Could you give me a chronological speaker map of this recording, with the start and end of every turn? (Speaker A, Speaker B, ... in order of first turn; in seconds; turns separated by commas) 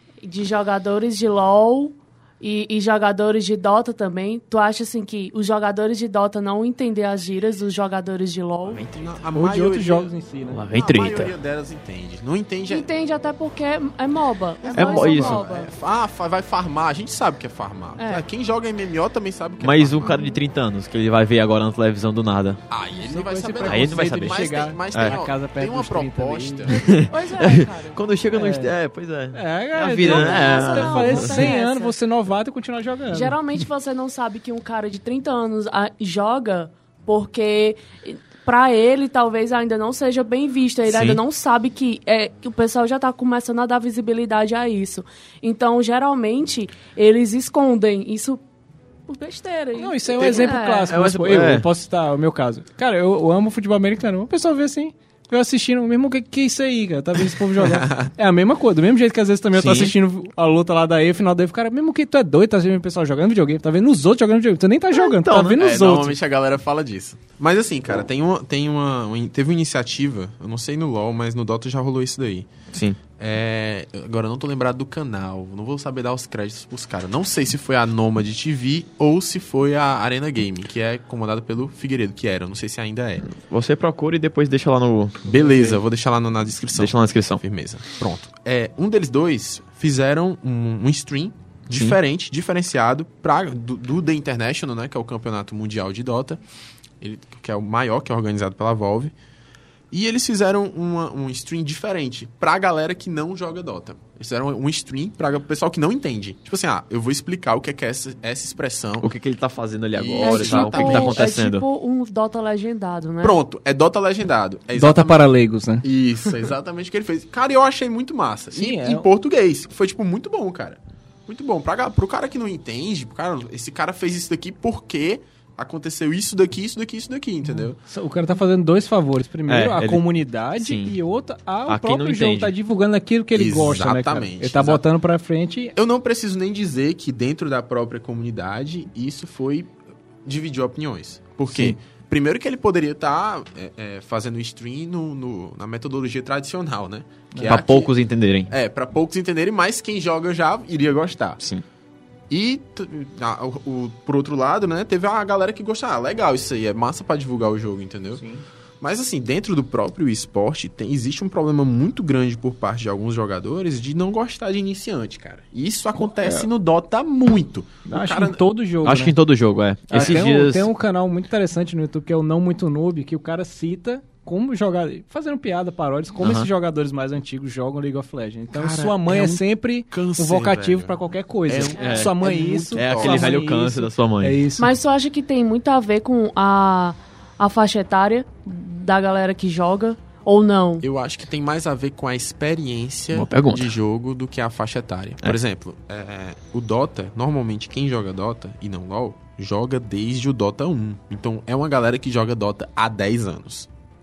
Speaker A: 0.2-8.9, Speaker B: 8.7-10.1, Speaker C: 9.3-10.6, Speaker D: 10.5-11.3, Speaker B: 10.7-12.9, Speaker A: 12.7-15.7, Speaker B: 14.6-20.2, Speaker D: 14.7-15.4, Speaker A: 18.0-18.2, Speaker D: 19.6-22.6, Speaker A: 20.0-20.4, Speaker B: 22.7-26.8, Speaker C: 23.0-26.7, Speaker D: 23.6-25.2, Speaker A: 26.7-28.0, Speaker D: 26.7-31.5, Speaker C: 28.3-28.7, Speaker C: 29.3-33.4, Speaker A: 30.0-32.0, Speaker A: 33.1-48.4, Speaker D: 40.9-41.2, Speaker A: 49.1-51.0, Speaker C: 49.8-66.2, Speaker D: 50.2-51.7, Speaker B: 57.6-58.1, Speaker D: 59.5-59.9, Speaker D: 64.9-65.6, Speaker B: 65.5-72.5, Speaker D: 72.7-73.0, Speaker B: 73.2-83.3, Speaker D: 83.3-85.7, Speaker B: 85.3-96.4, Speaker D: 86.8-87.4, Speaker D: 91.7-92.0, Speaker B: 97.0-99.1, Speaker B: 99.9-109.1, Speaker D: 109.0-111.7, Speaker B: 109.9-111.3, Speaker A: 110.2-113.4, Speaker B: 113.2-115.3, Speaker C: 114.7-115.8, Speaker B: 115.8-127.8, Speaker C: 118.5-119.1, Speaker C: 127.5-135.7, Speaker D: 129.5-130.0, Speaker D: 130.6-131.0, Speaker D: 131.7-132.5, Speaker B: 133.3-134.8, Speaker B: 135.8-139.7, Speaker B: 140.2-147.9, Speaker C: 141.5-141.8, Speaker C: 147.3-147.6, Speaker D: 147.4-148.5, Speaker B: 148.5-151.4, Speaker B: 152.3-158.2, Speaker C: 158.2-158.4, Speaker B: 158.8-168.4, Speaker C: 166.1-166.5, Speaker C: 167.9-169.2, Speaker D: 168.8-170.7, Speaker C: 169.9-184.7, Speaker D: 176.2-176.5, Speaker B: 178.5-183.4, Speaker D: 181.8-182.2, Speaker D: 182.7-184.4, Speaker A: 184.6-190.9, Speaker B: 190.8-203.7, Speaker D: 193.1-193.7